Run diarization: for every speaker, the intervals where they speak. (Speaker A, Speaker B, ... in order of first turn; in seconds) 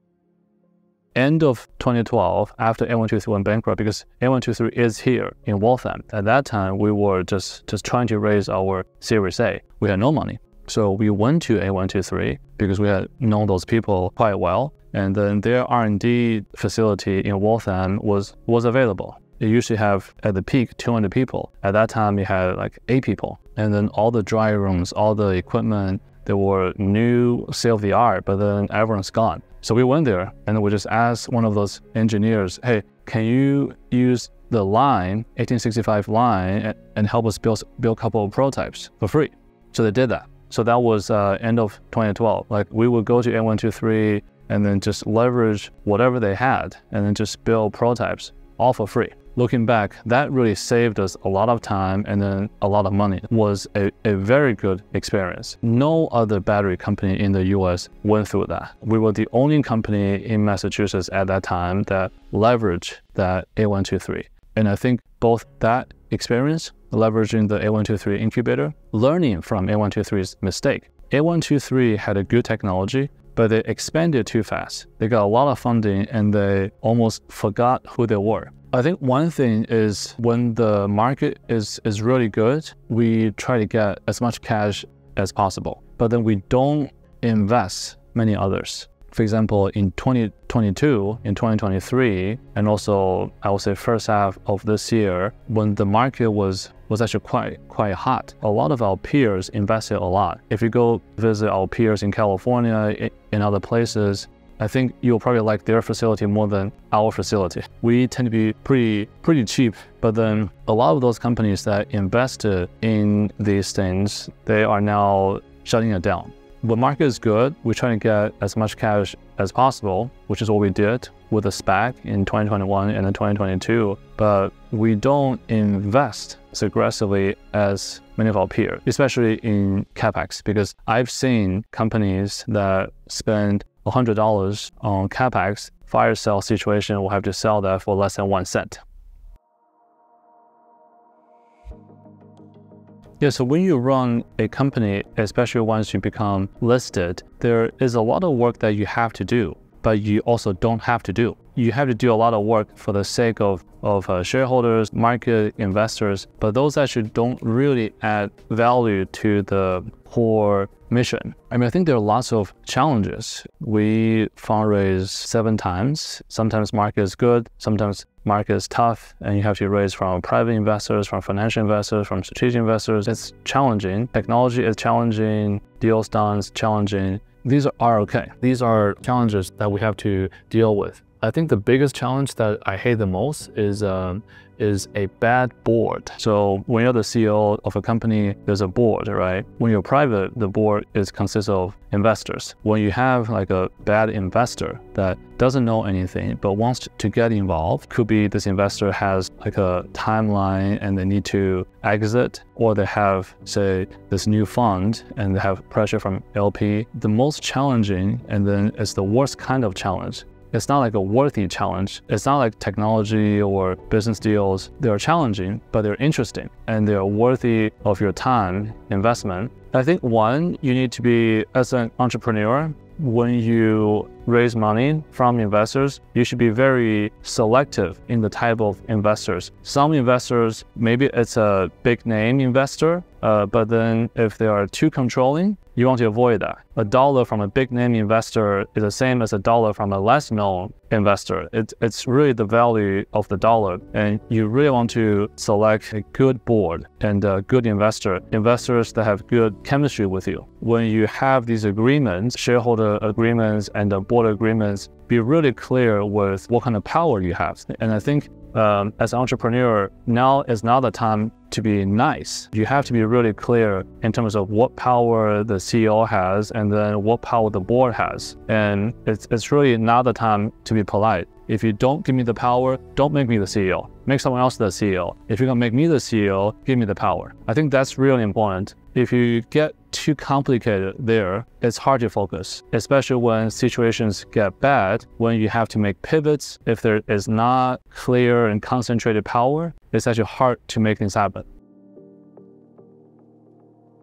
Speaker A: 1.1-138.8, 143.2-291.5